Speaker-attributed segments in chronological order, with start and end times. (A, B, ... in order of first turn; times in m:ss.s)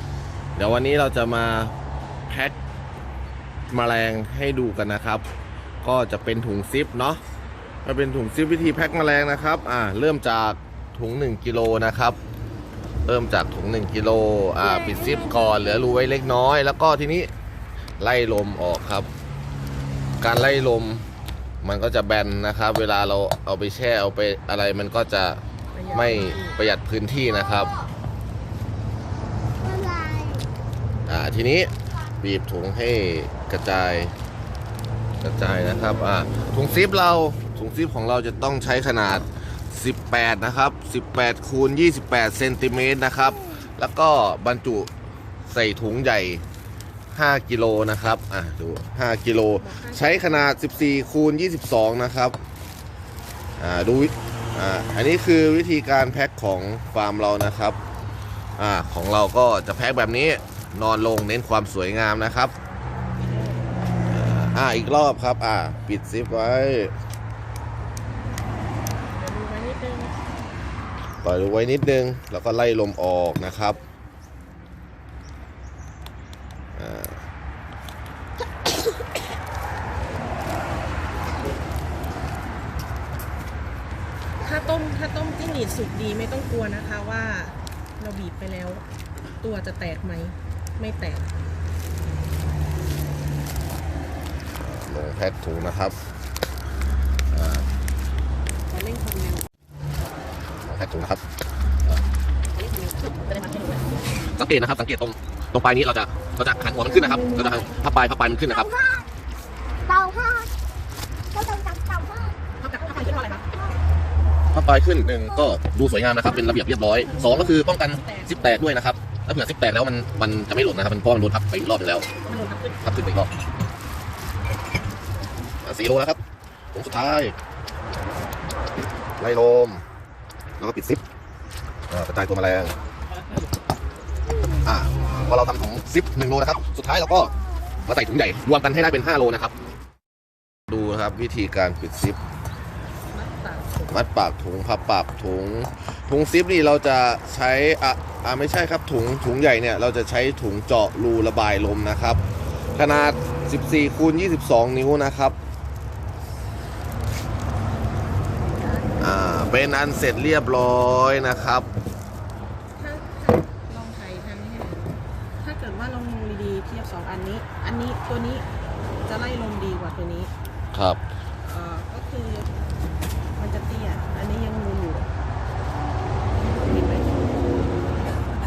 0:00.6-0:01.7 A
0:02.3-0:02.6 A
0:03.7-0:05.2 A
0:05.8-0:07.2 A
0:07.8-0:12.2 A
0:13.0-0:17.3 A
0:18.0-0:19.1 A
0:20.2-0:21.0 A
0:21.6-0:27.8 A
0:25.7-0:26.7 B
0:29.7-0:30.4 C
0:31.1-0:34.1 A
0:35.2-0:44.9 A
0:45.5-0:46.4 A
0:47.1-0:52.4 A
0:49.6-0:50.6 B
0:53.6-0:57.8 A
0:58.6-1:02.5 A
1:03.2-1:03.6 B
1:04.1-1:06.9 A
1:09.2-1:10.1 B
1:11.2-1:13.8 A
1:16.8-1:17.2 A
1:24.4-1:28.8 B
1:29.4-1:31.3 B
1:34.6-1:36.0 A
1:37.3-1:37.6 A
1:38.7-1:39.4 B
1:40.6-1:41.2 A
1:42.5-1:43.9 B
1:44.3-1:48.8 A
1:48.7-1:49.0 C
1:49.8-1:50.5 C
1:51.3-1:52.4 C
1:52.6-1:53.5 B
1:54.5-2:02.1 A
1:57.1-1:58.6 B
2:02.2-2:03.0 B
2:02.8-2:03.3 A
2:05.6-2:06.2 A
2:06.7-2:07.3 A
2:09.2-2:09.8 A
2:10.6-2:11.0 A
2:11.9-2:12.7 A
2:14.6-2:17.3 A
2:17.8-2:19.5 A
2:20.7-2:22.2 A
2:23.1-2:24.0 B
2:23.9-2:32.2 A
2:32.7-2:35.4 A
2:38.6-2:39.0 B
2:39.0-2:41.7 A
2:42.8-2:48.4 B
2:49.0-2:50.3 B
2:50.7-2:51.0 A
2:51.4-2:52.5 B
2:53.4-2:55.1 B
2:56.5-2:57.1 B